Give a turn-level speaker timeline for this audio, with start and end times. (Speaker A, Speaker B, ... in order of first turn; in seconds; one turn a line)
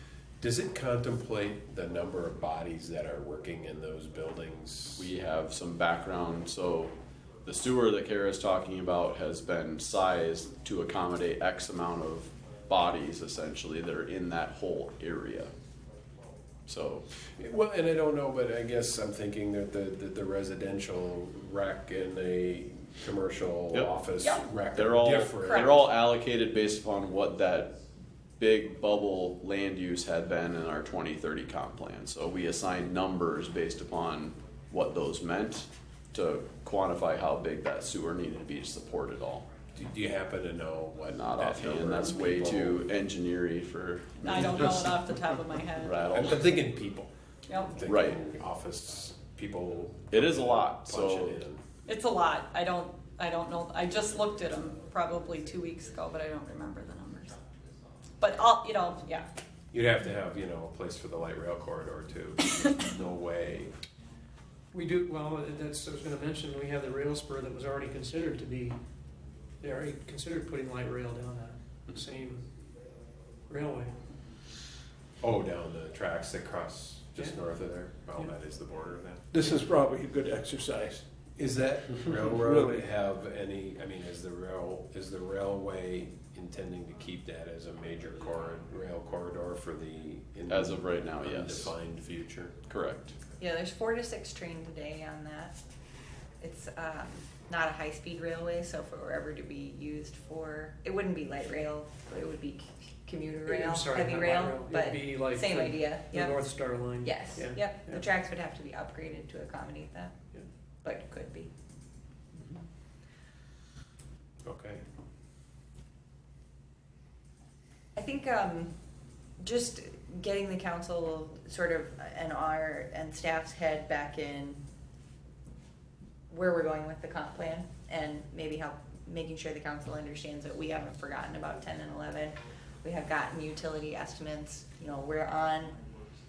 Speaker A: 0.4-5.1
Speaker B: 5.0-15.5
Speaker B: 16.7-17.1
Speaker A: 17.4-25.8
Speaker C: 24.2-24.5
Speaker B: 24.7-27.8
Speaker C: 25.4-25.8
Speaker B: 28.4-39.5
Speaker A: 39.7-42.8
Speaker B: 41.1-44.8
Speaker C: 44.2-46.0
Speaker A: 44.3-44.7
Speaker B: 45.8-46.6
Speaker A: 46.1-47.1
Speaker C: 47.5-47.8
Speaker A: 47.7-51.6
Speaker B: 47.8-48.2
Speaker B: 50.1-51.4
Speaker C: 51.9-57.4
Speaker C: 58.2-59.3
Speaker A: 59.7-63.8
Speaker D: 64.7-68.8
Speaker D: 69.6-72.4
Speaker D: 73.5-73.9
Speaker A: 75.2-79.2
Speaker E: 79.3-81.0
Speaker A: 81.3-92.6
Speaker E: 82.3-82.9
Speaker B: 90.5-91.7
Speaker B: 92.7-93.2
Speaker F: 93.4-95.6
Speaker F: 96.4-106.4
Speaker D: 103.4-108.0
Speaker F: 107.0-110.2
Speaker F: 110.8-111.5
Speaker A: 114.4-114.8
Speaker F: 118.0-118.7
Speaker F: 119.4-124.6
Speaker F: 126.3-135.8